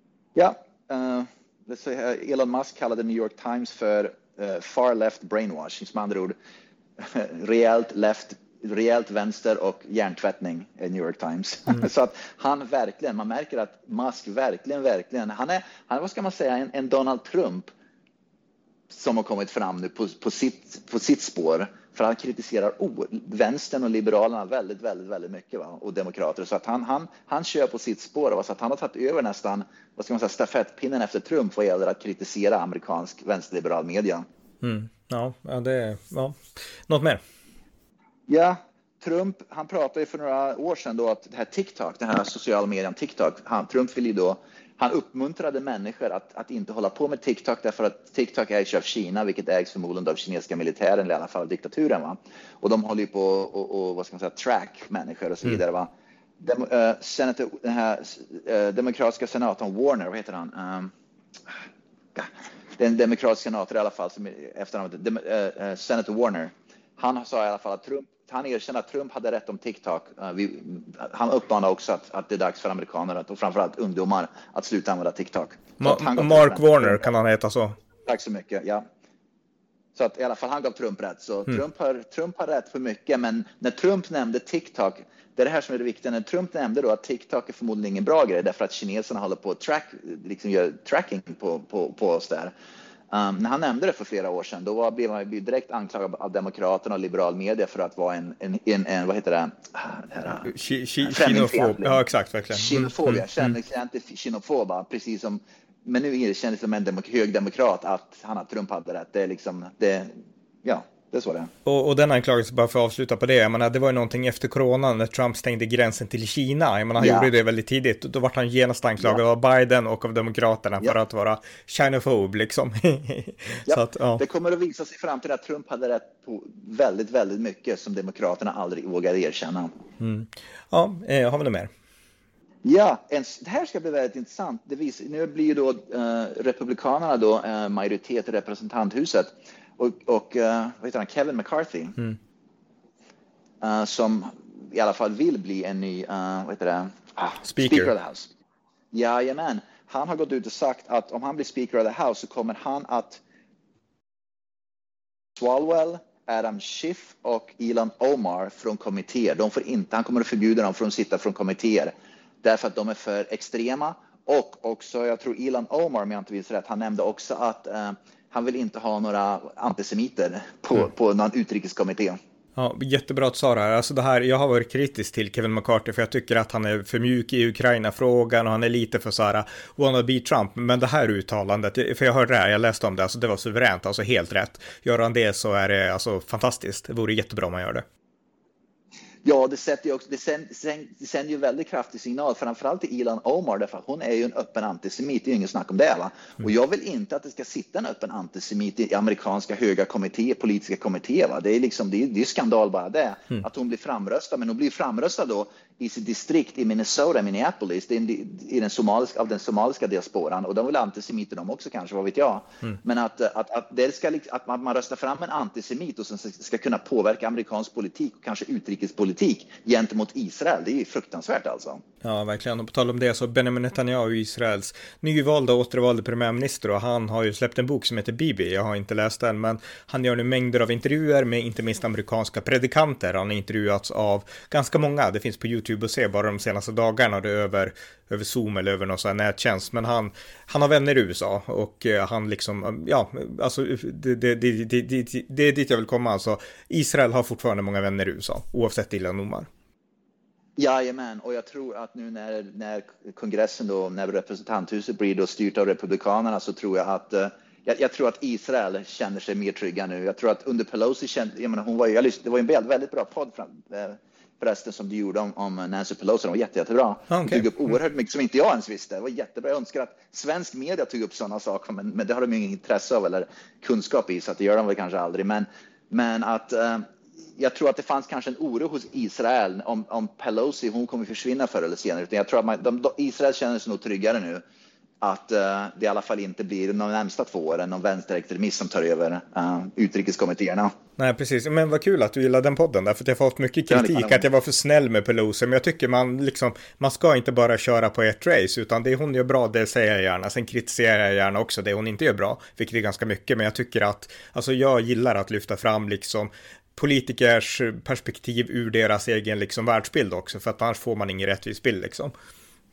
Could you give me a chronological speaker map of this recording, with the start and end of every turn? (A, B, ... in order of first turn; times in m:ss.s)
0:00.4-0:06.4 A
0:07.0-0:17.7 A
0:18.9-0:34.3 A
0:34.6-0:37.2 B
0:38.3-1:00.9 A
1:02.2-1:17.1 A
1:15.8-1:17.8 B
1:18.1-1:18.9 A
1:20.0-1:32.5 A
1:33.1-1:40.5 A
1:40.5-1:43.5 B
1:41.0-1:50.1 A
1:50.6-1:51.5 A
1:51.6-2:04.2 B
1:57.0-1:57.3 A
2:03.7-2:09.7 A
2:10.0-2:11.7 B
2:12.6-2:22.0 A
2:23.6-2:28.3 A
2:27.4-2:27.9 B
2:28.9-2:33.2 A
2:35.4-2:52.2 A
2:52.6-3:07.8 B
3:09.2-3:41.8 A
3:42.0-4:09.5 B
4:10.6-4:44.4 A
4:27.1-4:27.5 B
4:45.0-4:50.7 A
4:51.0-5:12.1 B
4:53.7-4:54.2 A